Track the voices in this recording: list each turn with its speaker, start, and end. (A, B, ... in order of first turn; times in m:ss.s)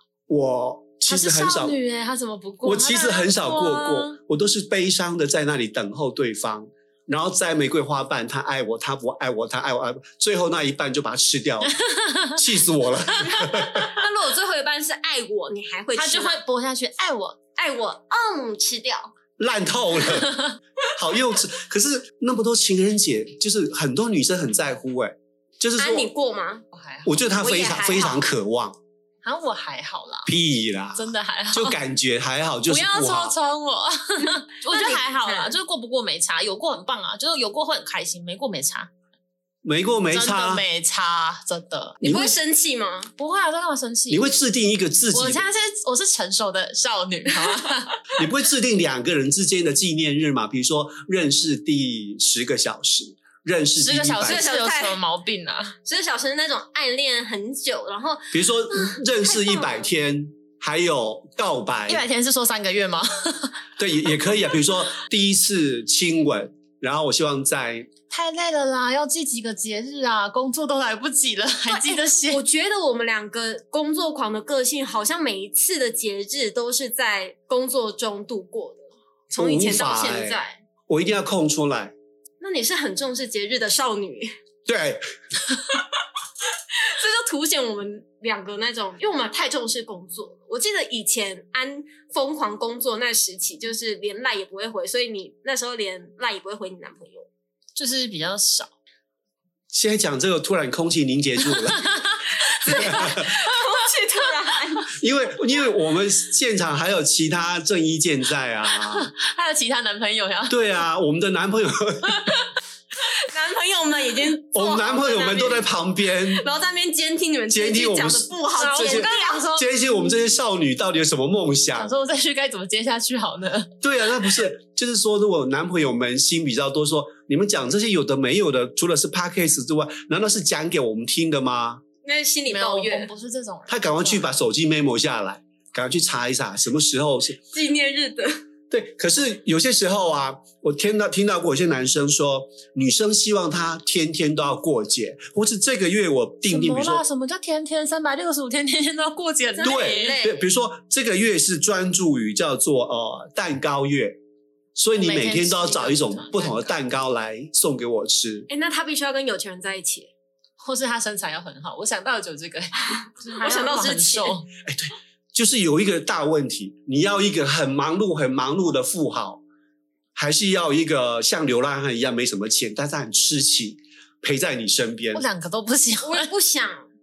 0:00.3-0:01.8 A
0:01.0-0:04.1 B
0:02.6-0:11.7 A
0:11.8-0:12.4 B
0:12.4-0:13.9 A
0:13.7-0:16.4 C
0:15.9-0:17.4 B
0:17.6-0:19.1 C
0:19.4-0:20.3 A
0:21.0-0:26.1 A
0:25.8-0:26.6 C
0:26.7-0:27.3 B
0:27.0-0:28.8 A
0:27.4-0:28.3 C
0:29.2-0:30.3 B
0:30.2-0:33.4 A
0:31.0-0:31.8 B
0:32.7-0:38.9 B
0:34.7-0:35.6 C
0:39.6-0:40.6 A
0:40.1-0:42.0 B
0:42.0-0:42.3 A
0:42.0-0:43.1 C
0:43.2-0:44.3 B
0:44.1-0:45.4 A
0:45.1-0:48.0 B
0:48.2-0:54.4 A
0:53.8-0:55.7 B
0:54.2-0:55.0 C
0:55.8-0:59.9 C
0:58.3-1:02.0 A
1:01.9-1:03.6 B
1:03.8-1:07.9 A
1:08.1-1:12.4 B
1:11.7-1:20.6 C
1:19.4-1:21.9 A
1:22.4-1:24.3 C
1:24.6-1:25.0 A
1:26.7-1:37.3 C
1:37.8-1:38.7 B
1:39.7-1:41.8 A
1:41.6-1:42.1 B
1:42.4-1:44.9 C
1:42.7-1:43.3 A
1:44.9-1:49.1 A
1:48.7-1:50.7 B
1:50.5-1:52.3 A
1:53.0-1:59.4 C
1:54.5-1:56.4 A
1:57.5-2:01.9 A
1:58.5-1:59.8 B
2:01.8-2:03.7 B
2:03.8-2:11.8 A
2:12.0-2:13.1 C
2:12.5-2:14.3 B
2:13.7-2:17.4 A
2:17.5-2:18.4 C
2:18.7-2:27.0 A
2:26.5-2:30.2 B
2:29.6-2:30.4 C
2:29.6-2:34.2 A
2:34.7-2:38.5 A
2:34.9-2:36.8 B
2:38.5-2:40.1 C
2:40.6-2:44.5 B
2:43.4-2:44.3 C
2:44.6-2:49.4 A
2:50.1-2:55.2 A
2:55.1-2:56.3 B
2:56.0-2:56.8 C